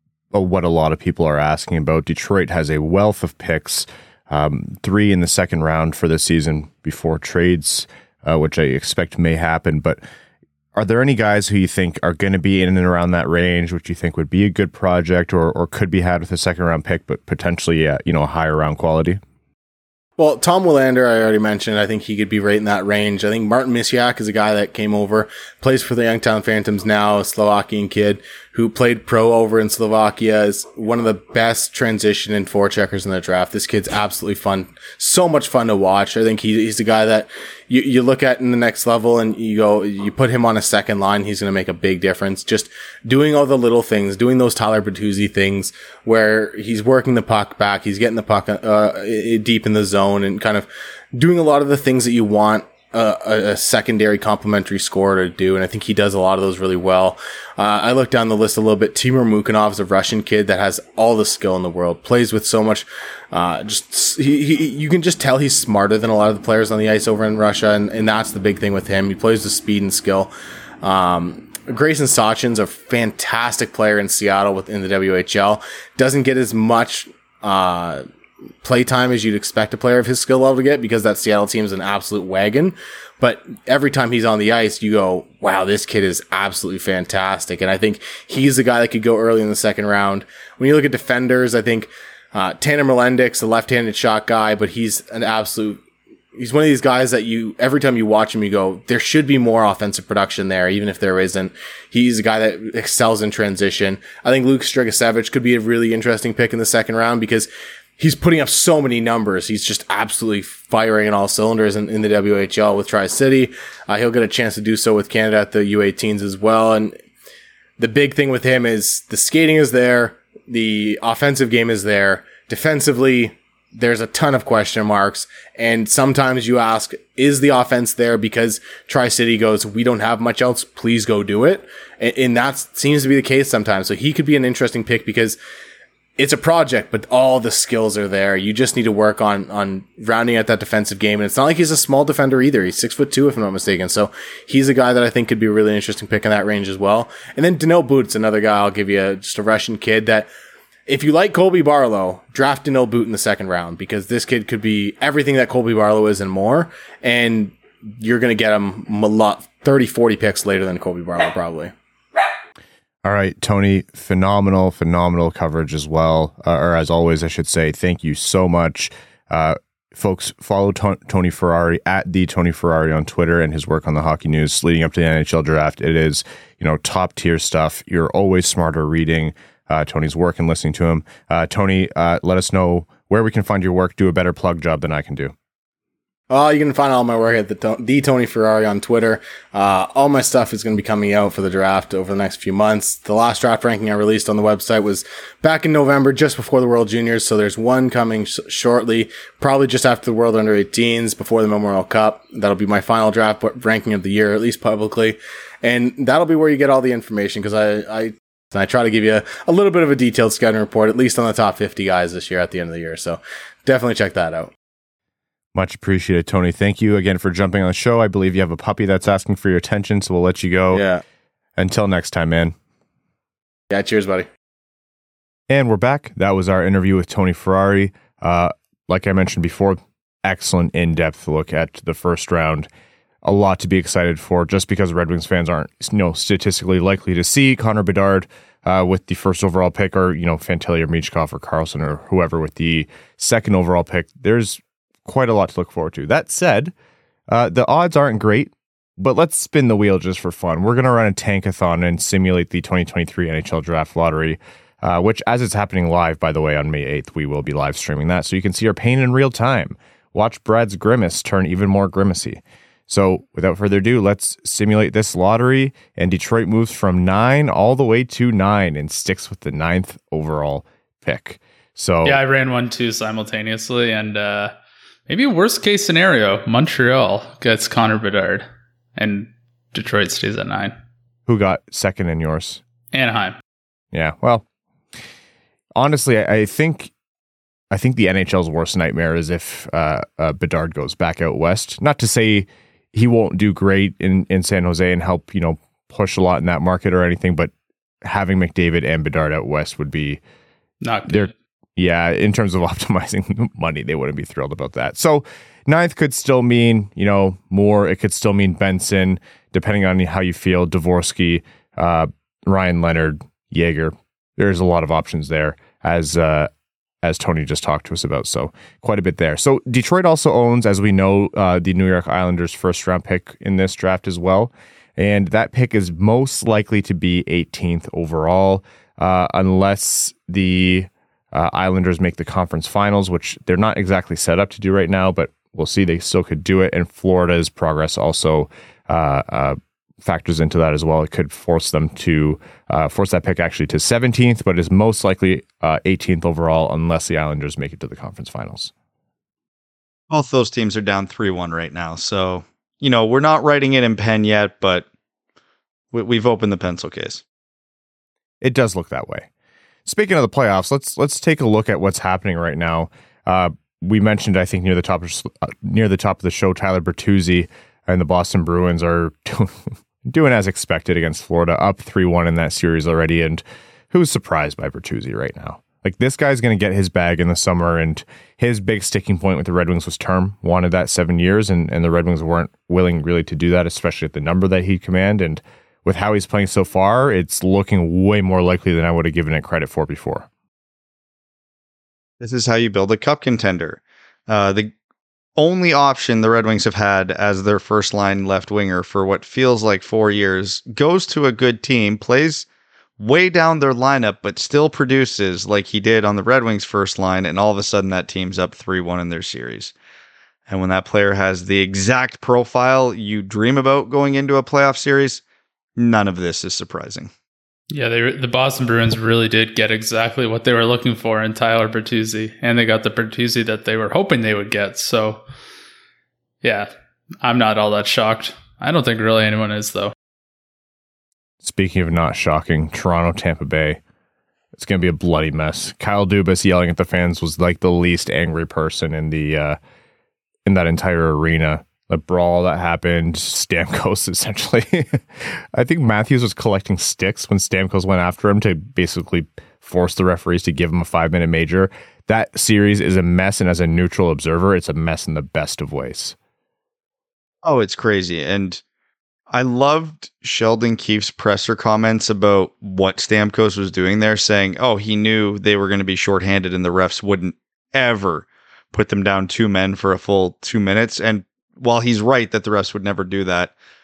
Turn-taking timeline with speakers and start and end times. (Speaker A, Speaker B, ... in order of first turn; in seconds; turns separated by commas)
Speaker A: 0.3-10.0, Speaker A: 10.8-19.2, Speaker B: 20.2-78.0, Speaker B: 78.6-95.8, Speaker B: 96.4-107.5, Speaker B: 108.0-117.0, Speaker B: 117.8-135.4, Speaker B: 136.2-150.3, Speaker B: 150.9-161.7, Speaker A: 163.0-185.3, Speaker B: 186.3-214.5, Speaker A: 215.6-220.8, Speaker B: 220.7-221.0, Speaker A: 221.6-222.6, Speaker B: 223.7-224.3, Speaker A: 225.5-232.7, Speaker A: 233.2-246.7, Speaker A: 247.3-272.2, Speaker C: 272.1-274.5, Speaker C: 275.1-280.7, Speaker A: 281.3-282.6, Speaker C: 282.9-283.4, Speaker A: 283.9-284.4, Speaker A: 285.8-286.9, Speaker A: 287.7-297.5, Speaker A: 298.0-300.2, Speaker C: 300.8-301.3, Speaker A: 301.1-316.5, Speaker A: 317.0-348.7, Speaker D: 350.1-354.9, Speaker D: 355.9-357.2, Speaker A: 358.4-359.3, Speaker A: 359.9-390.3, Speaker D: 392.2-394.7, Speaker D: 395.4-402.5, Speaker D: 403.0-409.7, Speaker D: 410.5-415.2, Speaker D: 415.8-417.1, Speaker C: 417.7-425.2, Speaker C: 426.4-426.7, Speaker C: 427.2-429.9, Speaker A: 431.4-433.8, Speaker A: 434.6-439.6, Speaker A: 440.5-456.2, Speaker D: 457.4-458.6, Speaker D: 459.3-473.5